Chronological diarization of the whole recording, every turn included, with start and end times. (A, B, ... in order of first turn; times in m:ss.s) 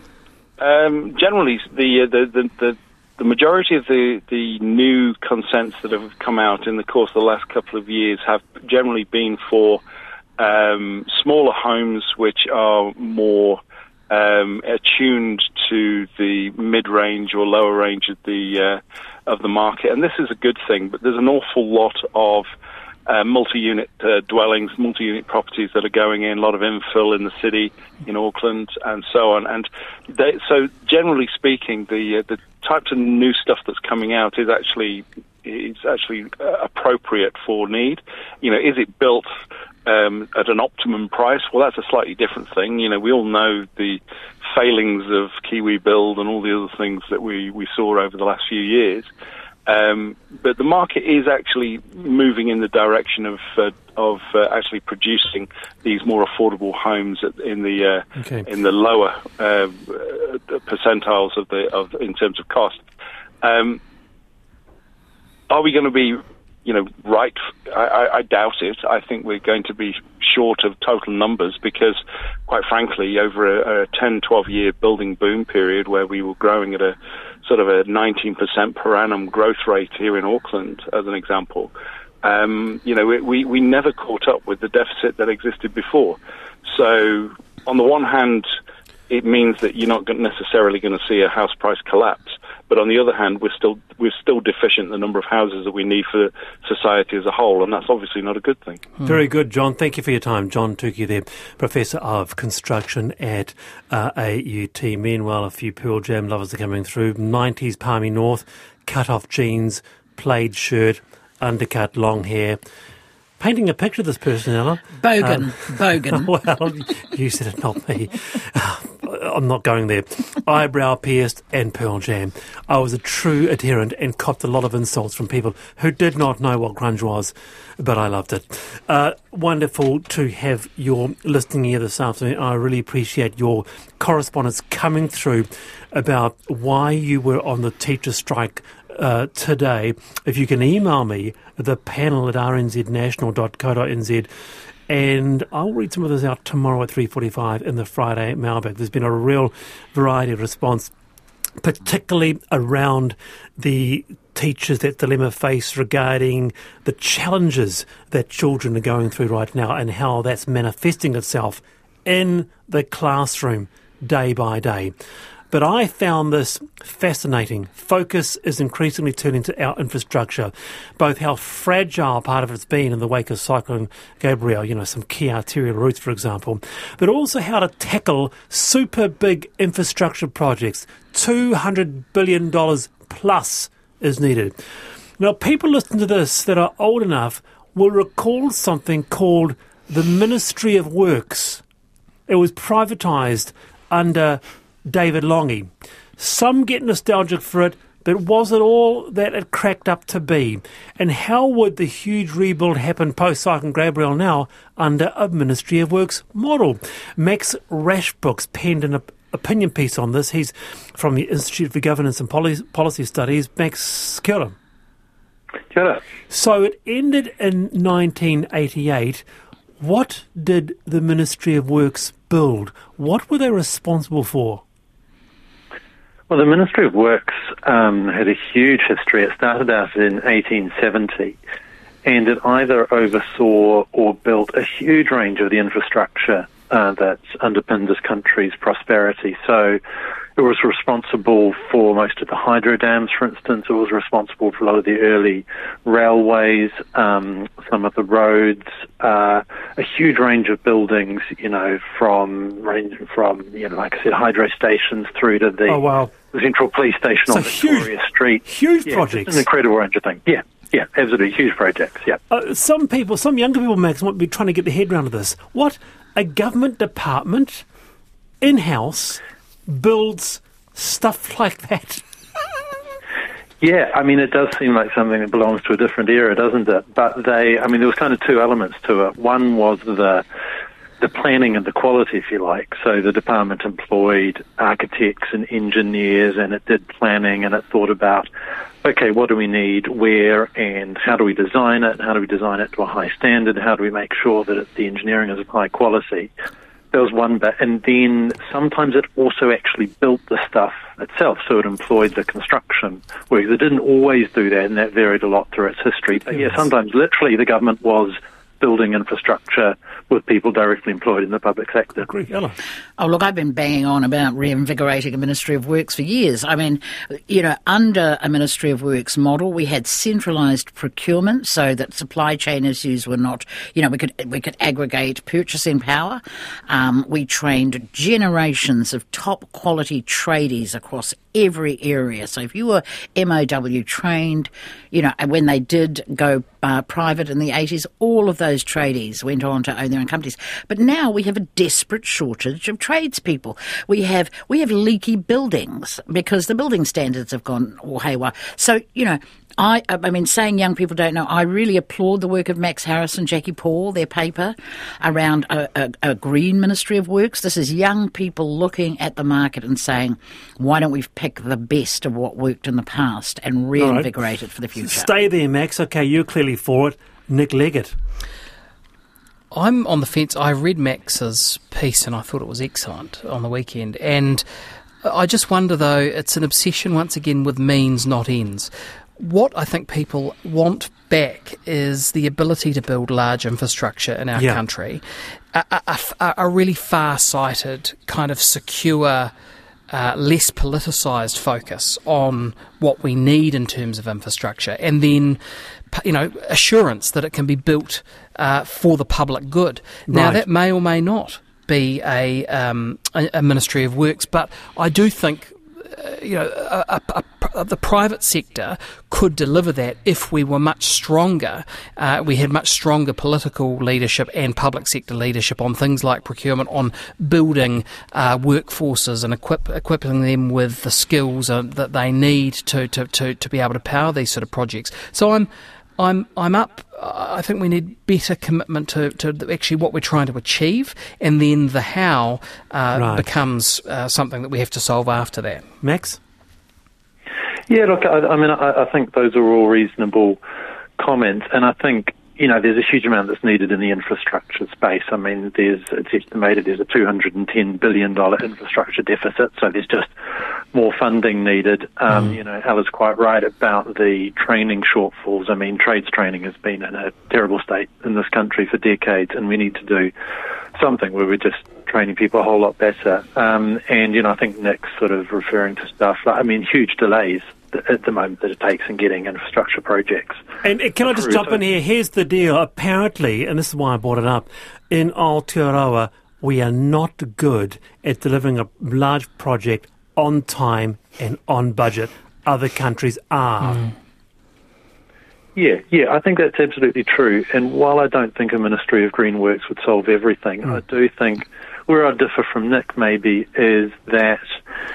0:00.6-0:09.8 A
0:10.4-0:22.5 A
0:23.1-0:39.3 A
0:39.9-0:49.1 A
0:49.7-1:02.8 A
0:58.2-0:58.5 B
1:03.4-1:03.8 A
1:05.5-1:28.5 A
1:29.1-1:38.8 A
1:39.0-1:52.6 B
1:53.4-2:24.3 B
1:55.0-1:56.3 C
2:24.9-2:30.9 B
2:31.6-2:44.9 B
2:45.5-3:04.6 B
3:05.2-3:11.6 B
3:12.3-3:34.6 B
3:35.7-3:36.0 D
3:36.3-3:39.2 B
3:39.8-3:44.6 B
3:46.3-3:51.4 D
3:52.0-3:59.8 D
4:00.4-4:22.2 D
4:15.7-4:16.1 B
4:17.3-4:17.9 B
4:18.4-4:19.5 B
4:22.3-4:27.6 B
4:28.4-4:32.0 B
4:33.6-4:40.2 D
4:41.0-4:48.3 D
4:48.8-4:56.3 D
4:56.9-5:12.1 D
5:12.0-5:12.6 B
5:13.0-6:05.1 C
6:03.8-6:04.1 B
6:04.8-6:08.0 B
6:09.5-6:14.4 E
6:15.0-6:29.3 E
6:29.9-6:35.4 E
6:35.9-7:15.7 E
6:40.1-6:40.4 B
7:12.9-7:13.2 B
7:15.8-7:16.2 B
7:17.7-7:20.4 D
7:21.0-7:30.1 D
7:30.7-7:40.1 D
7:40.8-7:50.4 D
7:50.6-8:03.9 B
7:51.0-7:51.6 D
8:05.6-8:14.6 D